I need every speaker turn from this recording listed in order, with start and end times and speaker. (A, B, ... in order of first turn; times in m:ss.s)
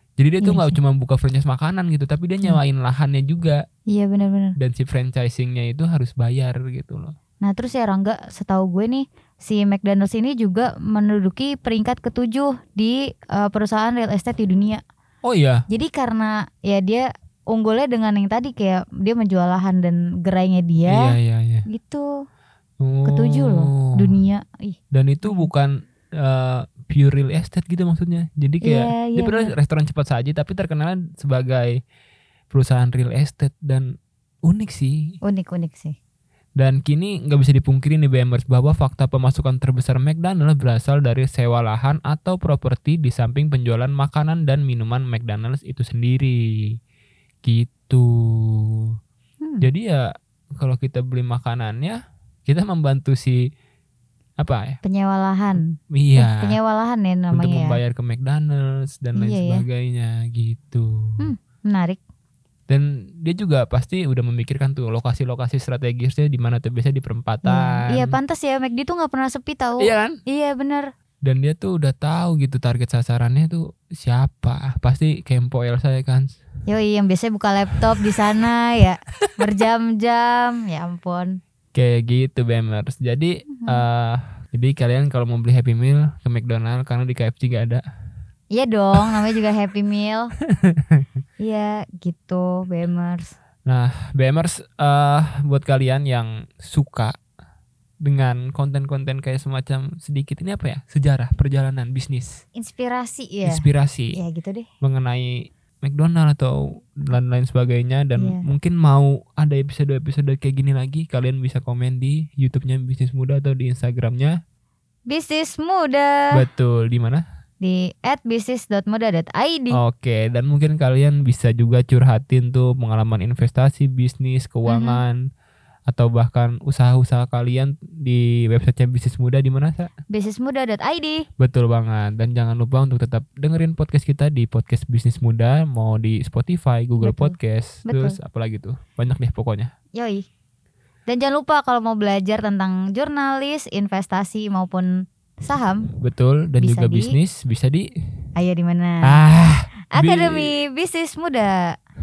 0:00.2-0:03.6 A
0:00.4-0:00.8 B
0:03.9-0:04.5 B
0:04.6-0:07.1 A
0:07.4-0:14.8 B
0:15.2-0:15.6 A
0:15.7-0:21.1 B
0:20.9-0:21.6 A
0:21.7-0:22.0 B
0:22.8-0:24.2 A
0:23.0-0:25.5 B
0:24.9-0:31.8 A
0:28.6-0:29.5 B
0:32.5-0:33.9 A
0:34.4-0:35.2 A
0:35.2-0:36.0 B
0:36.6-0:46.8 A
0:47.4-0:48.9 A
0:49.4-0:49.7 B
0:49.6-0:53.4 A
0:54.4-0:54.8 A
0:54.8-0:57.8 B
0:55.6-0:56.6 A
0:57.3-1:01.3 A
0:59.1-0:59.6 B
1:01.2-1:02.0 B
1:02.7-1:08.2 A
1:07.4-1:10.9 B
1:09.8-1:10.2 A
1:11.2-1:16.4 A
1:16.7-1:21.4 B
1:18.1-1:18.3 A
1:21.7-1:27.8 A
1:23.5-1:23.8 B
1:28.5-1:30.3 B
1:30.7-1:31.0 A
1:31.4-1:33.3 B
1:33.6-1:37.1 A
1:38.0-1:42.4 A
1:42.5-1:44.7 B
1:43.4-1:44.2 A
1:44.8-1:54.4 A
1:48.1-1:48.4 B
1:55.1-1:56.2 B
1:56.3-1:57.2 A
1:57.6-1:59.8 B
1:59.7-2:05.2 A
2:04.6-2:05.0 B
2:05.9-2:09.9 A
2:10.1-2:11.2 B
2:11.4-2:19.7 A
2:17.0-2:18.2 B
2:20.0-2:20.3 B
2:21.1-2:24.9 B
2:25.4-2:25.9 B
2:26.0-2:27.9 A
2:26.6-2:27.2 B
2:28.4-2:29.2 B
2:29.1-2:30.5 A
2:29.9-2:31.7 B